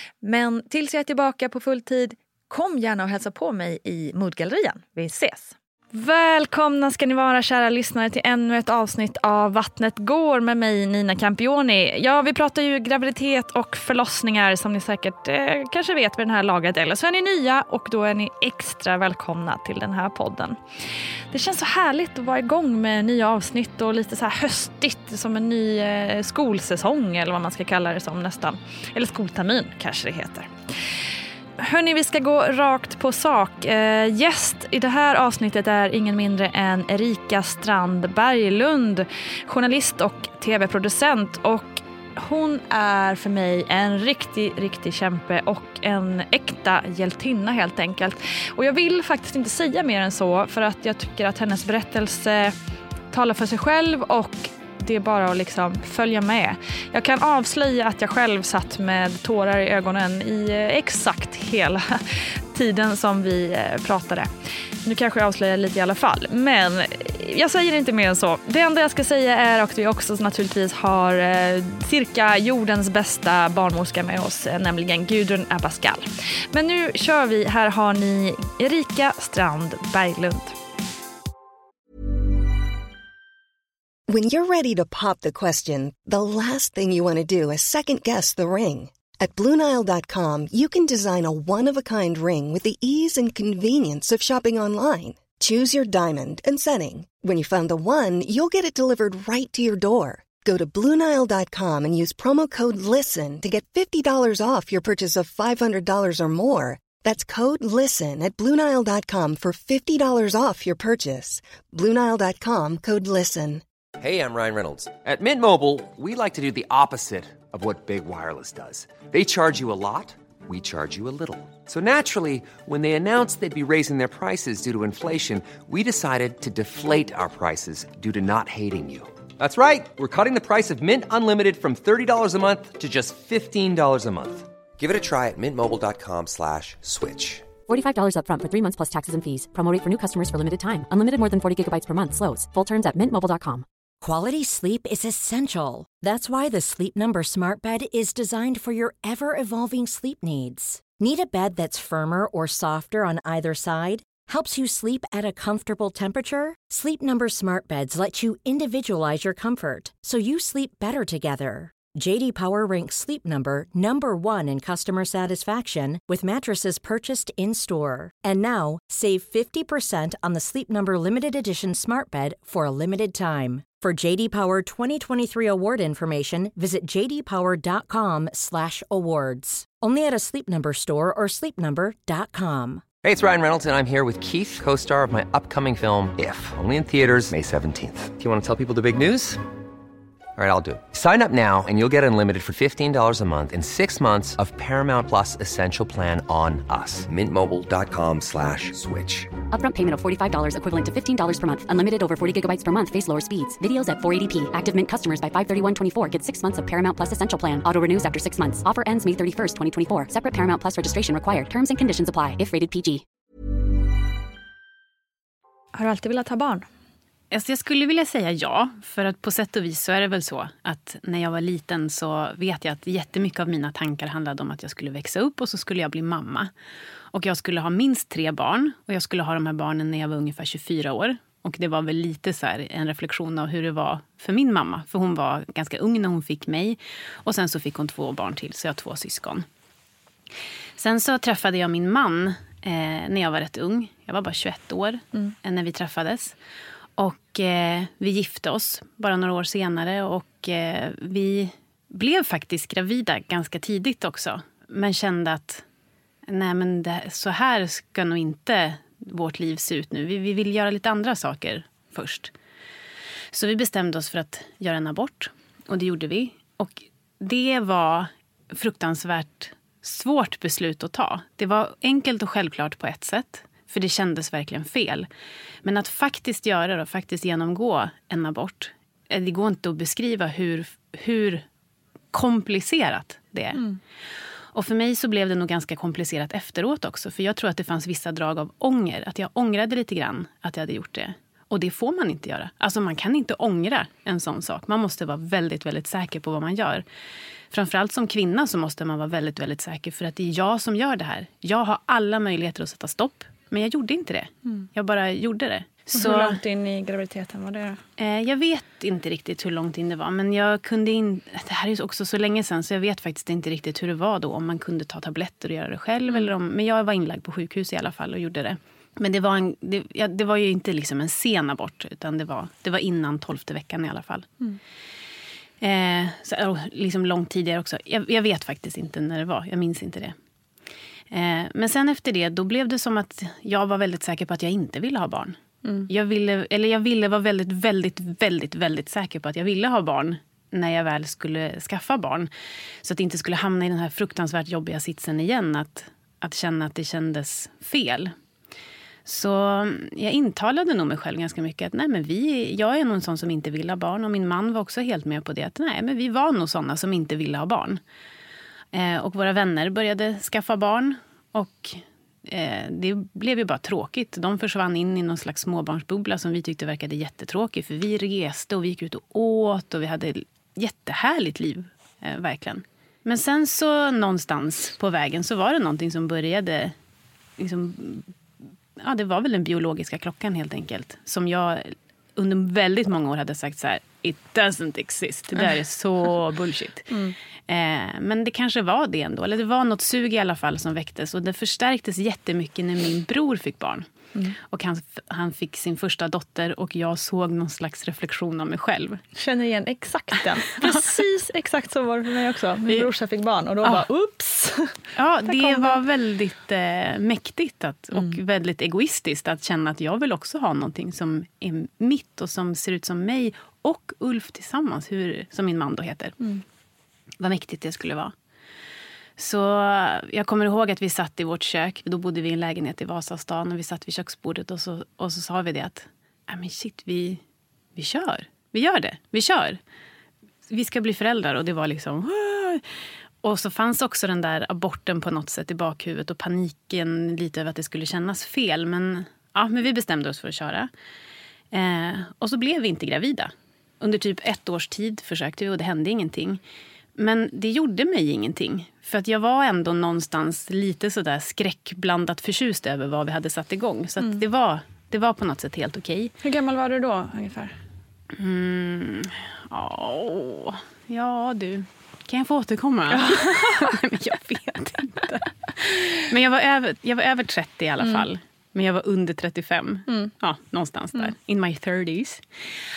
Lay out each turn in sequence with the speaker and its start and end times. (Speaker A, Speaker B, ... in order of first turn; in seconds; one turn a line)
Speaker A: 0.2-20.6
Speaker A: 21.3-30.5
Speaker A: 31.6-52.6
Speaker A: 53.1-64.3
Speaker A: 64.8-80.6
Speaker B: 84.1-113.6
Speaker C: 114.0-137.6
Speaker D: 137.7-143.7
Speaker E: 144.0-182.8
Speaker C: 183.0-189.4
Speaker C: 190.4-199.4
Speaker D: 199.5-213.0
Speaker A: 215.7-216.7
Speaker F: 217.3-226.5
Speaker F: 227.1-239.4
Speaker F: 240.8-246.4
Speaker F: 247.0-255.6
Speaker F: 256.3-262.3
Speaker F: 263.3-275.1
Speaker F: 275.6-281.4
Speaker F: 282.1-283.6
Speaker F: 284.5-296.9
Speaker F: 297.5-306.4
Speaker A: 305.9-307.8
Speaker F: 308.0-324.4
Speaker F: 325.6-330.1
Speaker F: 331.1-335.4
Speaker F: 335.9-342.3
Speaker F: 342.8-348.1
Speaker F: 349.1-357.8
Speaker F: 358.7-376.8
Speaker F: 377.4-378.1
Speaker F: 378.8-386.9
Speaker A: 386.9-387.1
Speaker F: 387.5-399.0
Speaker A: 399.2-405.8
Speaker F: 405.0-416.2
Speaker F: 417.2-418.1
Speaker F: 419.2-427.2
Speaker F: 427.8-429.6
Speaker F: 430.5-432.6
Speaker F: 433.2-440.7
Speaker F: 441.5-446.4
Speaker F: 447.0-456.1
Speaker A: 456.2-457.6
Speaker F: 458.2-472.2
Speaker A: 462.9-463.8